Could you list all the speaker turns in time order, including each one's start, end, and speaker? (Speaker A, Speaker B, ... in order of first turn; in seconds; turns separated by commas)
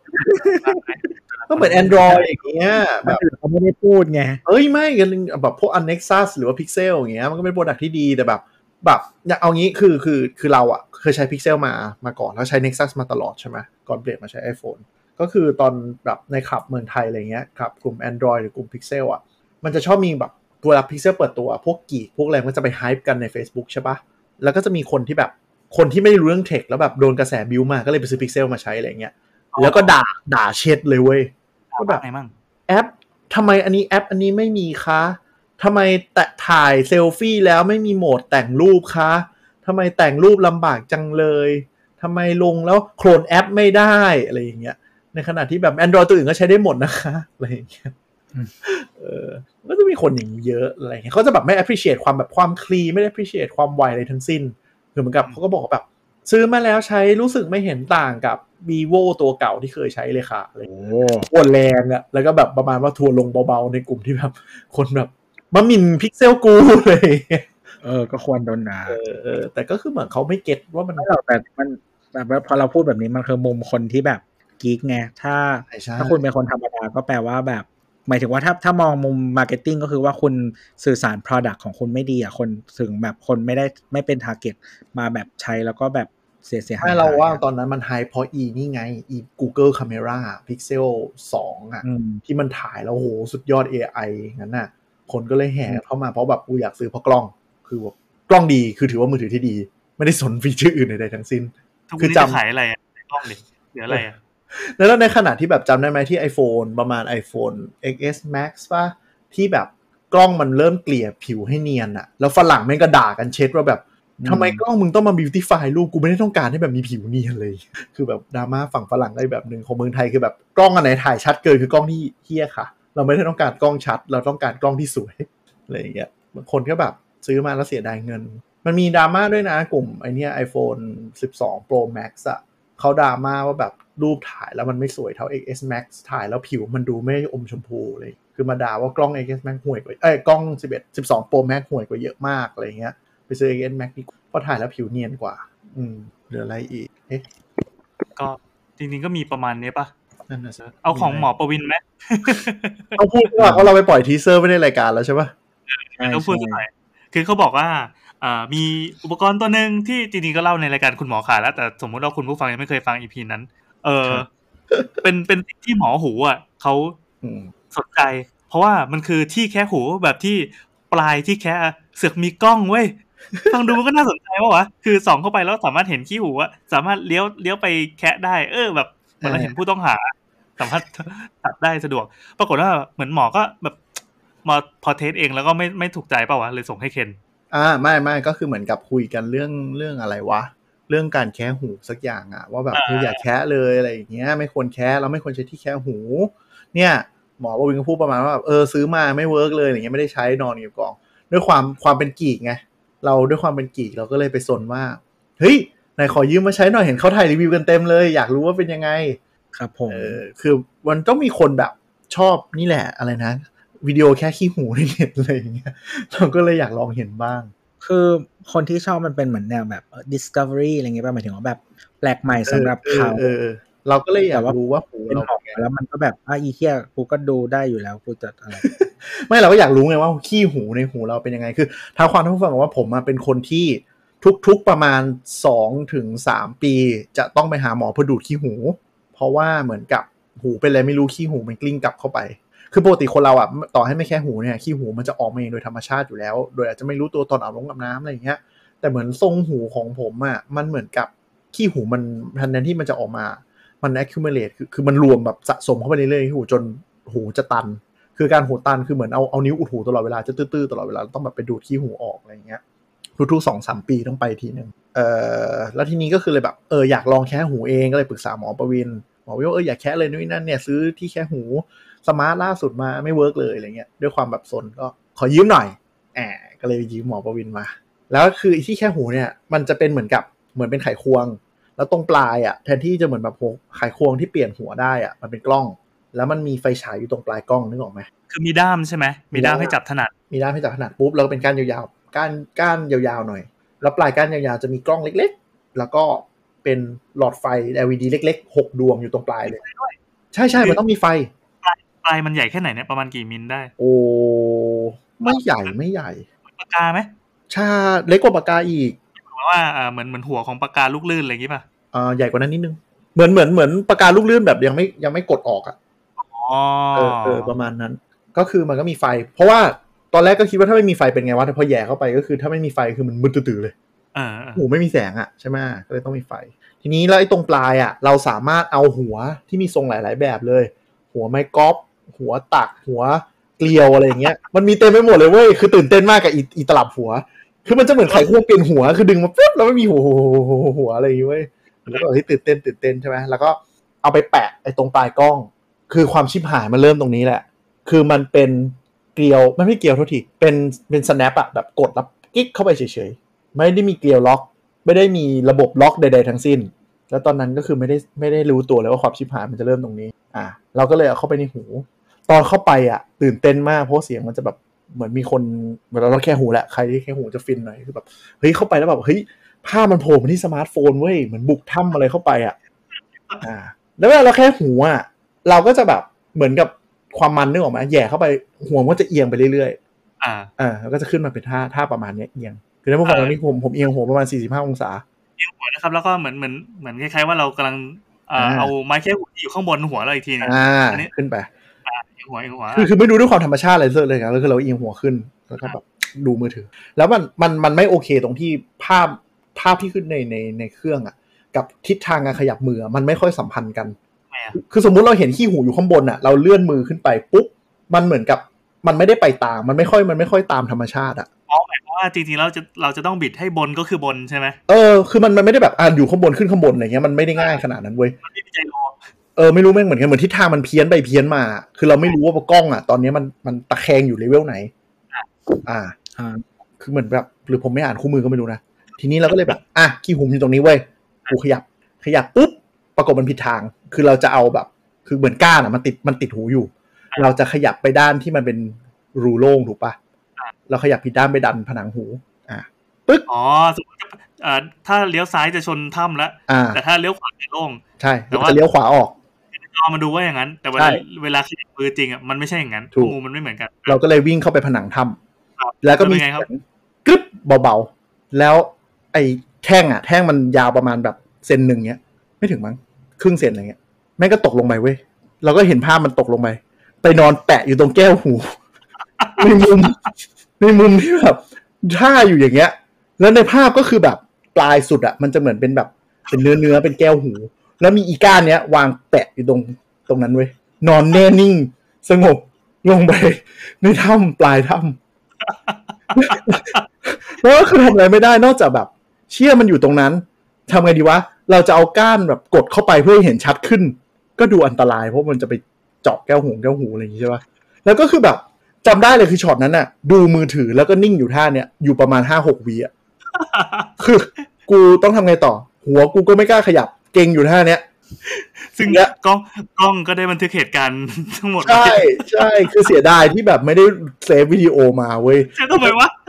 Speaker A: 0.2-0.6, Speaker B: 0.4-1.9, Speaker C: 1.5-3.2, Speaker A: 1.6-2.3, Speaker A: 3.0-4.4, Speaker C: 4.5-32.0, Speaker B: 29.5-30.0, Speaker B: 31.7-32.3, Speaker C: 32.7-47.9, Speaker C: 48.6-67.5, Speaker A: 60.7-61.3, Speaker A: 67.8-69.0, Speaker C: 68.9-71.1, Speaker A: 71.0-87.4, Speaker C: 75.7-76.2, Speaker C: 86.8-102.4, Speaker A: 91.8-92.2, Speaker B: 101.9-104.2, Speaker C: 103.9-147.2, Speaker A: 114.2-114.6, Speaker B: 148.2-149.9, Speaker C: 150.3-151.3, Speaker B: 150.8-153.0, Speaker C: 153.0-155.3, Speaker A: 153.4-153.7, Speaker B: 155.7-164.3, Speaker A: 156.0-156.6, Speaker B: 165.0-167.0, Speaker C: 167.2-167.5, Speaker B: 167.7-173.0, Speaker B: 173.5-183.8, Speaker C: 179.2-179.5, Speaker B: 184.4-187.2, Speaker C: 187.5-209.2, Speaker B: 192.7-193.2, Speaker A: 209.5-210.2, Speaker C: 209.9-217.5, Speaker A: 217.8-223.3, Speaker C: 222.4-225.6, Speaker A: 225.1-228.7, Speaker C: 228.5-262.6, Speaker C: 263.1-288.1, Speaker B: 288.3-290.1, Speaker C: 289.3-289.8, Speaker C: 290.3-299.6, Speaker B: 299.4-299.9, Speaker C: 300.3-301.3, Speaker B: 301.6-303.7, Speaker C: 303.8-306.2, Speaker B: 305.3-305.7, Speaker B: 306.5-307.1, Speaker C: 307.5-309.0, Speaker B: 309.1-311.6, Speaker C: 311.9-315.8, Speaker B: 316.2-317.5, Speaker C: 316.9-323.7, Speaker B: 324.1-324.6, Speaker C: 324.6-372.6, Speaker C: 373.4-379.8, Speaker B: 380.2-380.5, Speaker C: 380.6-385.0, Speaker B: 383.0-383.4, Speaker B: 385.4-391.1, Speaker C: 388.4-388.7, Speaker C: 390.4-391.5, Speaker B: 391.8-392.9, Speaker C: 392.7-404.0, Speaker B: 404.3-404.6, Speaker C: 404.5-411.3, Speaker B: 411.5-414.6, Speaker C: 414.7-418.2, Speaker B: 418.2-419.0, Speaker C: 419.4-424.7, Speaker C: 425.6-425.9, Speaker A: 426.1-426.4, Speaker C: 426.8-440.0, Speaker C: 440.7-443.2, Speaker B: 443.3-448.6, Speaker C: 446.5-446.8, Speaker C: 448.0-449.1, Speaker B: 449.5-454.0, Speaker C: 450.8-451.0, Speaker C: 453.9-455.2, Speaker B: 455.6-456.4, Speaker C: 455.8-468.6, Speaker B: 469.2-469.4, Speaker C: 469.4-485.0, Speaker B: 485.4-486.8, Speaker C: 486.1-502.9, Speaker B: 503.3-503.9, Speaker C: 504.0-507.9, Speaker B: 508.2-512.7, Speaker C: 508.8-509.1, Speaker C: 511.6-515.9, Speaker B: 515.5-516.1